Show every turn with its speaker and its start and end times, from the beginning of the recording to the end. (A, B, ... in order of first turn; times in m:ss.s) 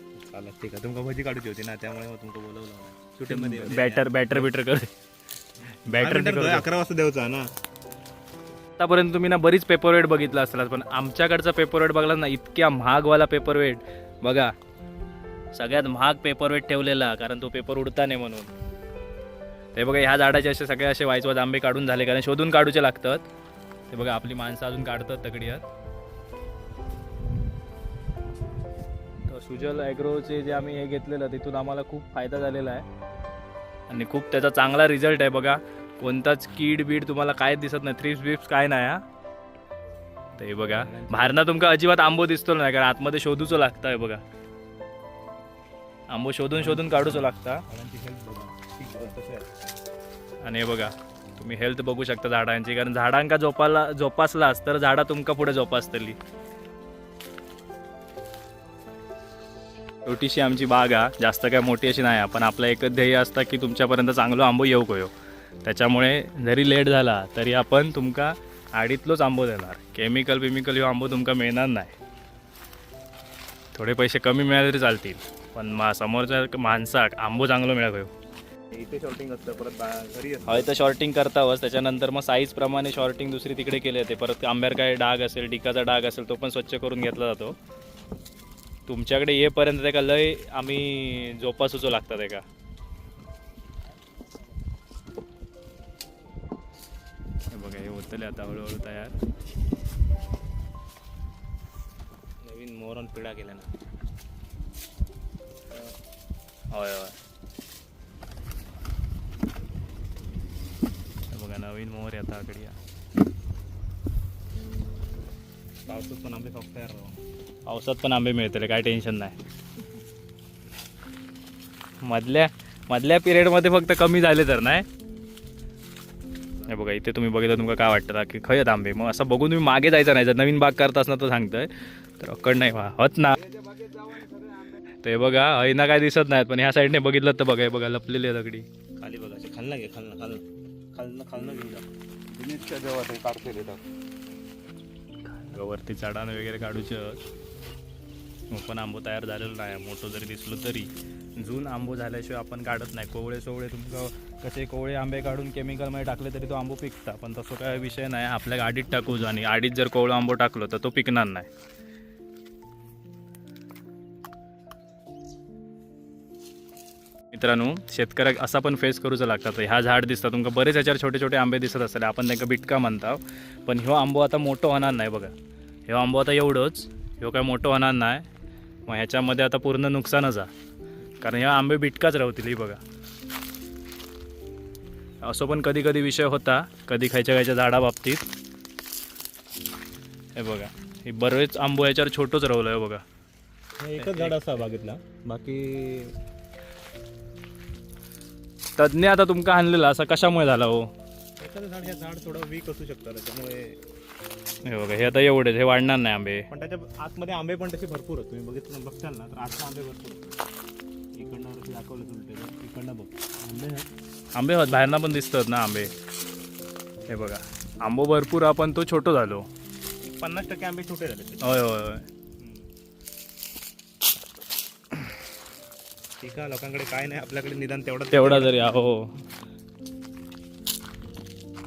0:00.2-0:04.5 A
0:03.3-0:04.9 B
0:05.9-0:06.7 B
0:06.0-0:07.5 A
0:08.8-0:14.5 B
0:15.5-0:18.5 B
0:19.8-0:23.3 B
0:23.9-0:25.7 B
0:29.3-0:32.8 B
0:33.9-0:39.0 B
0:40.4-0:44.2 B
0:40.7-0:41.4 A
0:46.1-0:47.6 B
0:46.6-0:49.5 A
0:50.4-0:56.2 B
1:00.0-1:05.1 B
1:05.6-1:11.9 B
1:13.7-1:18.1 B
1:18.7-1:20.7 A
1:20.5-1:27.6 B
1:28.9-1:32.4 B
1:37.5-1:39.1 B
1:42.4-1:43.7 B
1:46.7-1:47.2 B
1:51.3-1:52.8 B
1:55.9-1:57.2 A
1:57.7-1:59.4 B
2:02.0-2:04.9 B
2:06.7-2:13.4 B
2:13.4-2:14.8 C
2:15.0-2:18.6 B
2:19.0-2:21.9 A
2:22.3-2:23.8 C
2:25.2-2:27.2 B
2:28.5-2:41.5 B
2:47.3-2:55.3 B
2:55.9-2:58.3 B
2:58.9-3:00.5 B
3:01.2-3:02.8 B
3:05.2-3:08.3 B
3:10.4-3:13.0 B
3:13.8-3:16.1 A
3:14.0-3:14.4 B
3:18.8-3:20.9 B
3:21.4-3:23.8 A
3:24.6-3:26.5 B
3:26.5-3:30.4 A
3:31.2-3:33.9 A
3:34.3-3:35.9 B
3:37.1-3:39.4 B
3:40.0-3:41.6 A
3:41.4-3:42.0 B
3:46.2-3:48.5 A
3:48.1-3:49.1 B